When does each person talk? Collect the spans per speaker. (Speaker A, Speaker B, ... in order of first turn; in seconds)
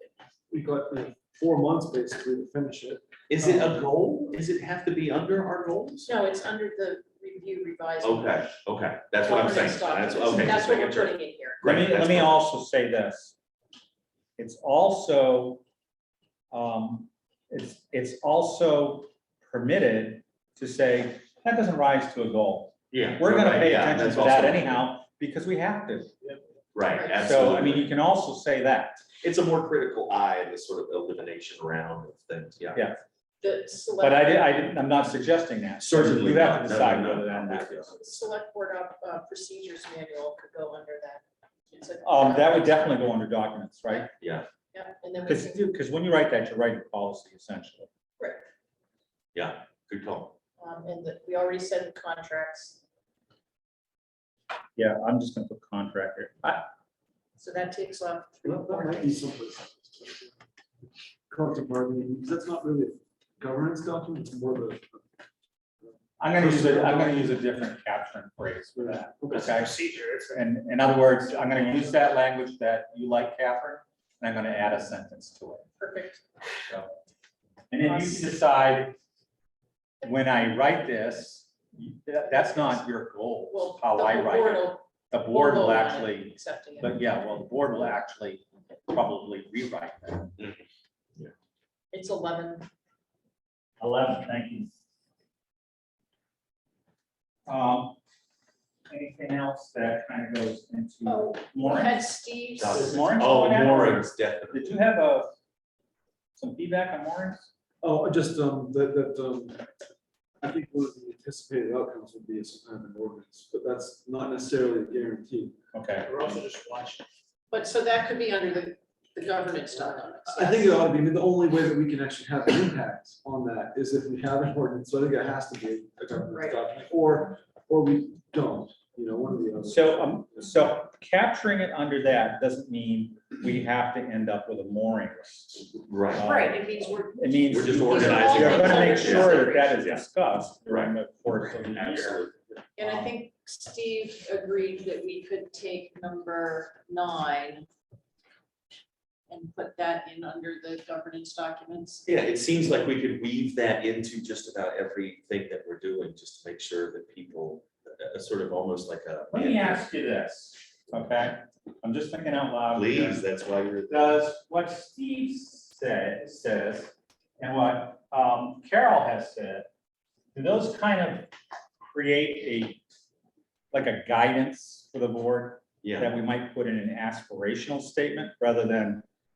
Speaker A: 0.5-3.7, 58.4-60.3, 61.3-65.0, 65.8-67.2, 68.8-69.5, 107.8-109.7, 110.4-115.5, 120.2-130.4
Speaker B: 3.3-6.1, 8.0-12.4, 22.9-24.8, 26.7-27.9, 29.2-32.8, 35.8-37.9, 44.2-44.5, 49.3-50.3, 90.4-90.6, 102.6-104.7, 135.8-136.3, 137.5-140.0, 140.7-140.9, 141.7-142.3, 152.1-159.8, 162.7-163.9, 175.8-176.1
Speaker C: 6.0-8.5, 9.2-11.6, 26.9-27.2, 33.4-34.7, 37.9-43.1, 44.7-45.8, 48.2-48.4, 50.6-52.8, 57.4-59.1, 75.8-76.2, 82.3-82.8, 83.5-86.9, 91.9-92.7, 101.0-103.3, 117.5-120.8, 126.3-126.5, 136.1-139.8, 142.8-147.7, 149.3-152.1
Speaker D: 11.6-13.3, 14.4-15.6, 16.5-26.1, 27.1-29.0, 32.7-33.0, 34.0-38.0, 42.0-44.1, 45.2-47.9, 54.8-56.6, 66.2-75.7, 76.7-76.9, 77.7-79.0, 80.0-90.3, 93.8-94.8, 97.5-98.0, 98.9-102.0, 102.7-105.3, 106.4-107.5, 115.7-116.2, 129.7-143.1, 159.3-163.2, 163.9-169.7, 170.3-171.3, 171.8-172.8, 173.7-179.0
Speaker E: 69.3-70.4, 116.0-117.0